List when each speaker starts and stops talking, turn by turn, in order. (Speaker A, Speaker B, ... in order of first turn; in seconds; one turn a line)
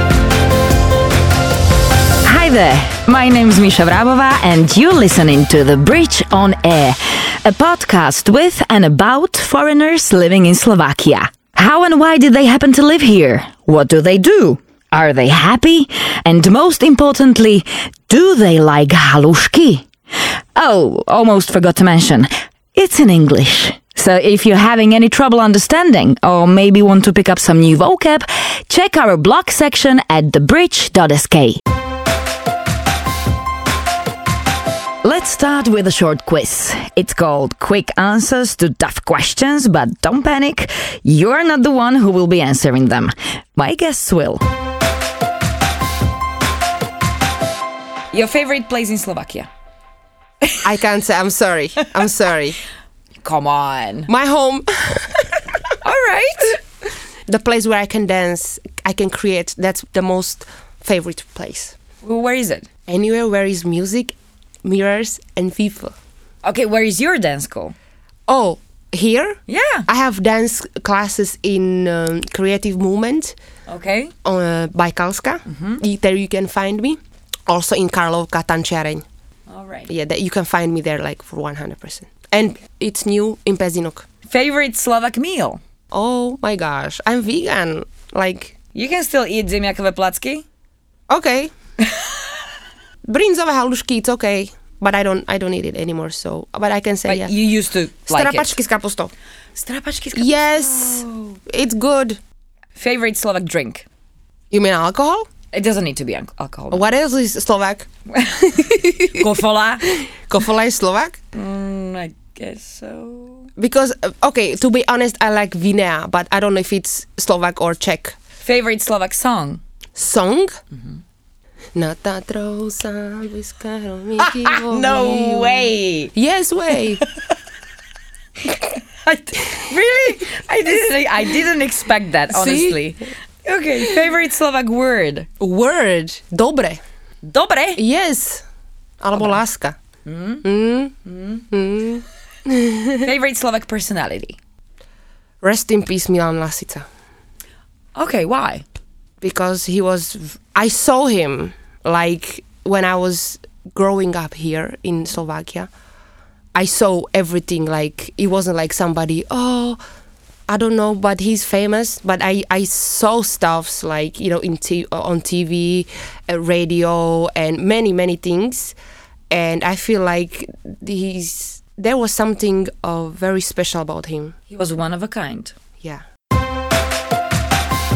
Speaker A: 2.2-31.6
Speaker A: 35.0-44.4
Speaker A: 48.1-49.5
Speaker B: 50.6-52.6
Speaker A: 53.2-54.1
Speaker B: 54.1-55.6
Speaker A: 55.8-56.6
Speaker B: 57.2-61.8
Speaker A: 62.0-62.7
Speaker B: 62.9-65.9
Speaker A: 66.4-67.7
Speaker B: 68.3-73.3
Speaker A: 69.5-69.9
Speaker A: 73.7-74.1
Speaker B: 74.2-79.0
Speaker A: 75.5-75.8
Speaker A: 79.5-79.9
Speaker B: 79.9-84.0
Speaker A: 84.3-85.6
Speaker B: 85.9-88.5
Speaker A: 88.7-90.4
Speaker B: 91.1-91.5
Speaker A: 91.8-92.2
Speaker B: 93.0-97.3
Speaker A: 97.0-98.5
Speaker B: 98.1-99.1
Speaker A: 99.5-101.4
Speaker B: 100.1-102.2
Speaker A: 102.8-103.8
Speaker B: 104.5-105.3
Speaker A: 105.5-106.9
Speaker B: 106.7-107.9
Speaker A: 108.1-108.5
Speaker B: 108.4-111.2
Speaker A: 109.1-110.0
Speaker A: 111.3-113.5
Speaker B: 113.6-118.2
Speaker A: 118.4-119.6
Speaker B: 120.0-120.6
Speaker A: 120.7-121.0
Speaker B: 121.7-127.0
Speaker A: 124.2-126.1
Speaker A: 129.0-135.3
Speaker B: 132.3-132.8
Speaker B: 135.4-136.8
Speaker A: 137.2-137.8
Speaker B: 137.8-138.4
Speaker B: 139.0-139.8
Speaker A: 140.1-140.4
Speaker B: 140.4-140.9
Speaker A: 141.1-141.4
Speaker B: 141.5-143.1
Speaker A: 143.0-144.4
Speaker B: 145.4-146.8
Speaker A: 147.9-148.6
Speaker B: 149.2-155.7
Speaker B: 156.5-159.8
Speaker B: 160.5-168.7
Speaker B: 169.3-174.3
Speaker A: 174.5-175.6